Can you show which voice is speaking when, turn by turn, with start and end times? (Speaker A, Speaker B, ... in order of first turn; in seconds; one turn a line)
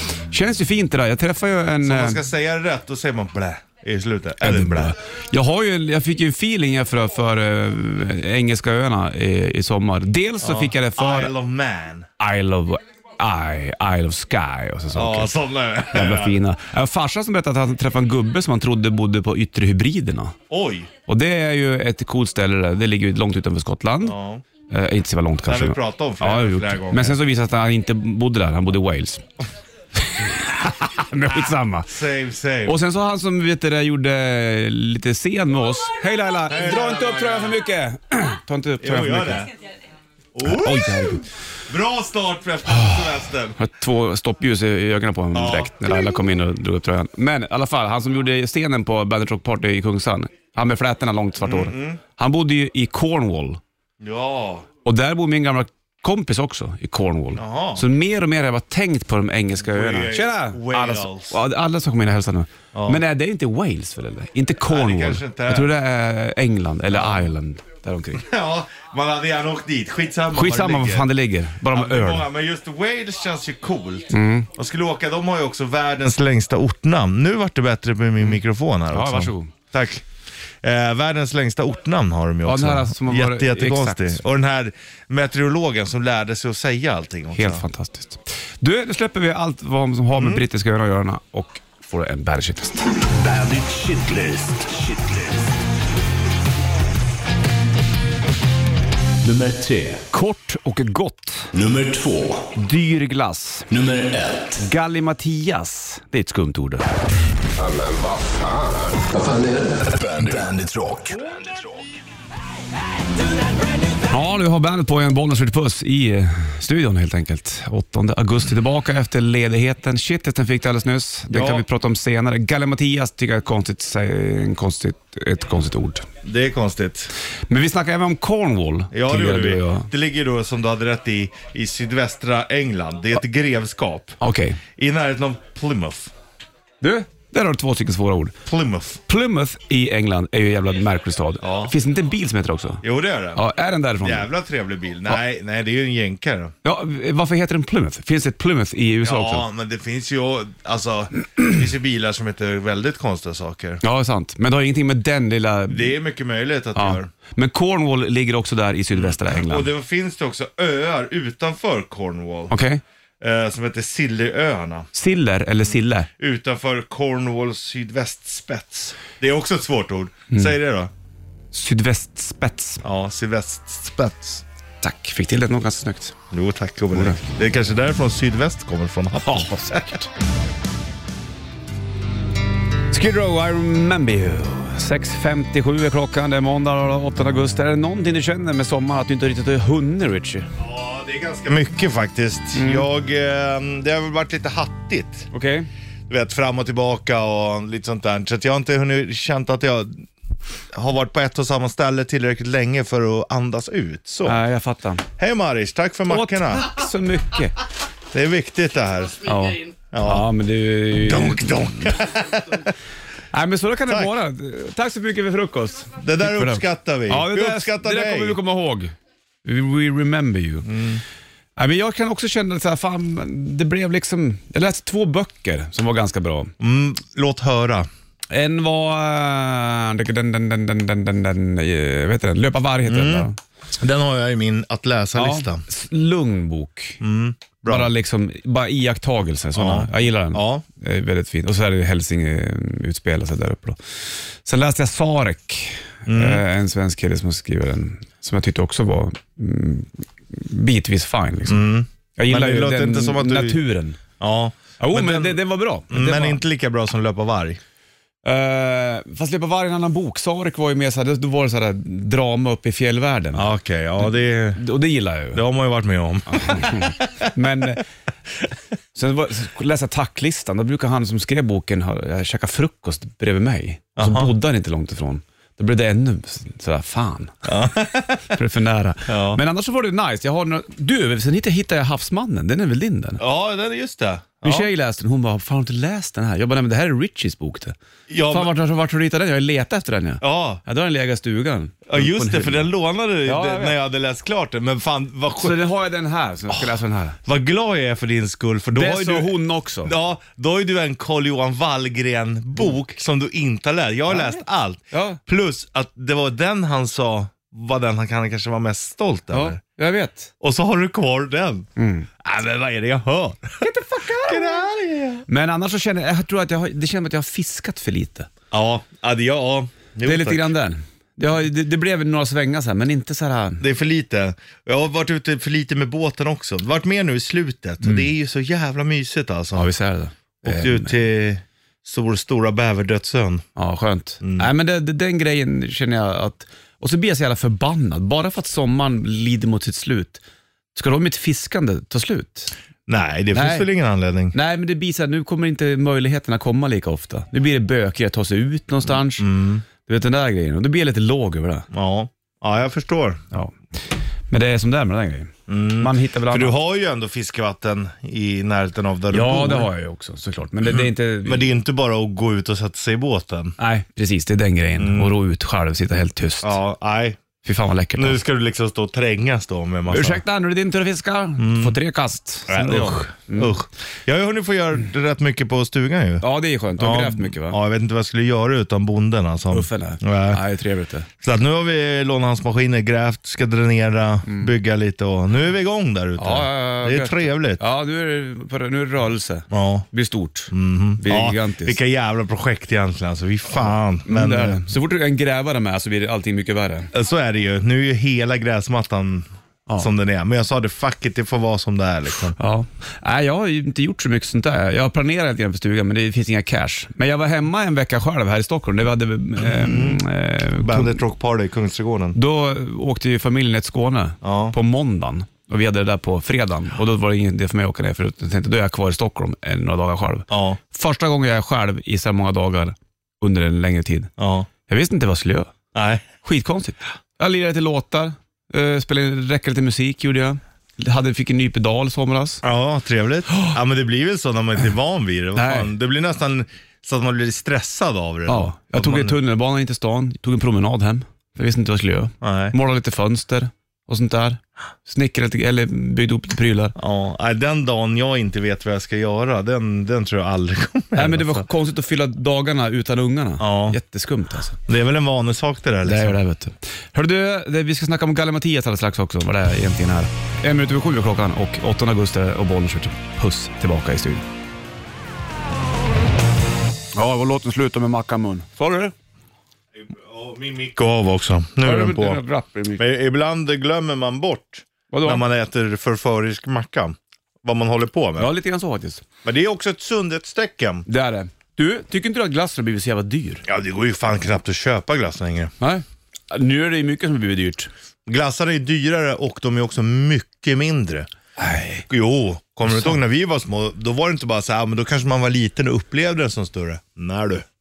Speaker A: 0.2-2.2
Speaker B: 1.8-5.0
Speaker A: 4.4-11.3
Speaker B: 10.4-12.1
Speaker A: 12.2-15.3
Speaker B: 14.9-16.4
Speaker A: 15.9-20.4
Speaker B: 20.5-20.9
Speaker A: 21.1-24.2
Speaker B: 24.0-24.4
Speaker A: 24.7-29.2
Speaker B: 25.4-27.2
Speaker A: 30.0-31.9
Speaker B: 31.9-32.8
Speaker A: 32.6-39.5
Speaker B: 36.5-37.6
Speaker B: 38.8-39.5
Speaker B: 40.3-43.5
Speaker A: 40.4-41.3
Speaker A: 42.7-53.6
Speaker B: 45.3-46.0
Speaker B: 51.4-52.0
Speaker B: 54.0-54.7
Speaker A: 54.8-68.2
Speaker B: 57.3-57.8
Speaker B: 59.6-61.4
Speaker B: 62.7-63.0
Speaker B: 64.7-65.7
Speaker B: 66.9-67.3
Speaker B: 68.1-71.1
Speaker A: 70.3-72.3
Speaker B: 71.7-80.0
Speaker A: 74.1-74.5
Speaker A: 78.9-79.5
Speaker B: 80.6-87.6
Speaker A: 82.4-84.2
Speaker A: 87.3-93.0
Speaker B: 90.1-90.4
Speaker C: 93.1-95.5
Speaker C: 99.2-100.0
Speaker A: 100.1-101.5
Speaker C: 101.5-102.5
Speaker A: 102.5-103.7
Speaker C: 103.7-104.6
Speaker A: 104.6-106.9
Speaker C: 107.5-111.8
Speaker A: 114.0-126.1
Speaker B: 121.3-121.6
Speaker B: 126.2-127.1
Speaker A: 127.5-129.9
Speaker B: 128.9-134.2
Speaker A: 134.2-134.6
Speaker B: 134.8-136.1
Speaker A: 136.8-138.4
Speaker B: 138.4-139.0
Speaker A: 139.1-144.3
Speaker B: 141.4-141.7
Speaker B: 142.8-143.5
Speaker B: 144.0-146.5
Speaker A: 146.6-149.4
Speaker B: 149.0-153.8
Speaker A: 153.8-155.9
Speaker B: 155.7-157.1
Speaker A: 156.8-159.7
Speaker B: 159.0-162.5
Speaker A: 162.5-162.8
Speaker B: 163.2-164.9
Speaker A: 164.9-166.1
Speaker B: 165.7-170.9
Speaker A: 171.5-172.8
Speaker B: 172.8-174.4
Speaker A: 174.8-176.1
Speaker B: 176.3-179.9
Speaker A: 176.9-177.2
Speaker A: 179.2-180.1
Speaker A: 182.9-190.5
Speaker B: 190.6-195.3
Speaker A: 192.5-192.8
Speaker A: 195.3-195.7
Speaker B: 196.1-200.1
Speaker B: 200.7-204.4
Speaker A: 204.2-205.0
Speaker B: 205.2-206.8
Speaker A: 206.1-207.6
Speaker B: 208.1-209.4
Speaker A: 209.2-211.5
Speaker B: 209.9-210.2
Speaker B: 211.0-212.7
Speaker A: 213.3-218.9
Speaker B: 215.9-218.4
Speaker A: 219.4-220.7
Speaker B: 220.6-221.0
Speaker A: 221.6-226.5
Speaker B: 226.6-227.9
Speaker A: 228.3-233.4
Speaker B: 232.8-233.3
Speaker B: 233.8-235.6
Speaker A: 235.2-237.0
Speaker B: 237.0-237.9
Speaker A: 237.7-251.6
Speaker B: 239.5-240.6
Speaker B: 246.1-246.4
Speaker B: 251.5-253.6
Speaker A: 252.2-254.0
Speaker B: 254.2-257.6
Speaker A: 254.8-256.4
Speaker A: 258.2-263.5
Speaker B: 263.3-264.6
Speaker A: 264.6-265.4
Speaker B: 265.3-267.3
Speaker A: 266.3-267.8
Speaker A: 268.9-277.5
Speaker B: 274.0-274.3
Speaker B: 277.4-278.3
Speaker A: 278.3-283.2
Speaker B: 279.1-279.4
Speaker B: 283.2-284.7
Speaker A: 284.4-287.7
Speaker B: 288.1-288.5
Speaker A: 288.3-292.7
Speaker B: 290.2-290.6
Speaker B: 291.9-295.6
Speaker A: 293.2-293.8
Speaker A: 295.4-297.2
Speaker B: 297.2-309.6
Speaker A: 298.7-299.9
Speaker A: 304.1-304.4
Speaker A: 304.9-305.2
Speaker A: 309.3-310.3
Speaker B: 310.4-311.7
Speaker A: 311.8-312.1
Speaker B: 312.2-313.6
Speaker A: 313.6-314.6
Speaker B: 314.2-315.2
Speaker A: 315.3-318.3
Speaker B: 318.5-320.5
Speaker A: 320.0-323.6
Speaker B: 323.6-329.7
Speaker A: 327.8-328.1
Speaker A: 329.6-331.0
Speaker B: 330.4-333.4
Speaker A: 333.6-340.2
Speaker B: 334.2-334.5
Speaker A: 340.7-342.5
Speaker B: 342.9-344.3
Speaker A: 343.3-343.6
Speaker A: 344.3-351.7
Speaker B: 349.2-349.6
Speaker B: 351.7-353.2
Speaker A: 353.3-356.5
Speaker B: 355.5-359.7
Speaker A: 359.1-361.5
Speaker B: 360.6-363.5
Speaker A: 363.6-366.6
Speaker B: 364.8-365.1
Speaker B: 366.4-367.2
Speaker A: 367.4-368.2
Speaker B: 367.9-370.2
Speaker A: 369.9-373.5
Speaker B: 371.4-371.8
Speaker B: 372.5-376.2
Speaker A: 376.2-377.6
Speaker B: 376.8-380.4
Speaker A: 379.5-381.1
Speaker B: 381.2-387.6
Speaker A: 384.2-384.5
Speaker A: 386.2-391.8
Speaker B: 389.5-389.9
Speaker B: 390.5-394.7
Speaker A: 394.0-396.9
Speaker B: 396.9-399.3
Speaker B: 399.8-402.4
Speaker A: 402.4-411.0
Speaker B: 409.4-410.0
Speaker B: 410.6-412.2
Speaker A: 412.1-424.1
Speaker B: 414.2-414.5
Speaker B: 420.3-420.6
Speaker B: 424.2-424.5
Speaker A: 424.6-425.5
Speaker B: 425.7-426.1
Speaker A: 426.2-432.4
Speaker B: 432.4-439.1
Speaker A: 433.3-433.6
Speaker A: 435.4-435.7
Speaker A: 438.3-446.7
Speaker B: 442.2-442.5
Speaker B: 446.8-451.4
Speaker A: 450.9-454.6
Speaker B: 453.4-453.8
Speaker B: 454.7-456.1
Speaker A: 455.8-464.2
Speaker A: 466.9-468.9
Speaker B: 469.8-472.2
Speaker A: 471.6-472.8
Speaker B: 472.8-478.3
Speaker A: 474.9-475.2
Speaker A: 478.2-479.0
Speaker B: 479.2-480.8
Speaker A: 480.9-483.4
Speaker B: 483.4-485.5
Speaker A: 485.6-487.7
Speaker B: 488.1-491.1
Speaker A: 491.4-491.9
Speaker B: 491.9-497.4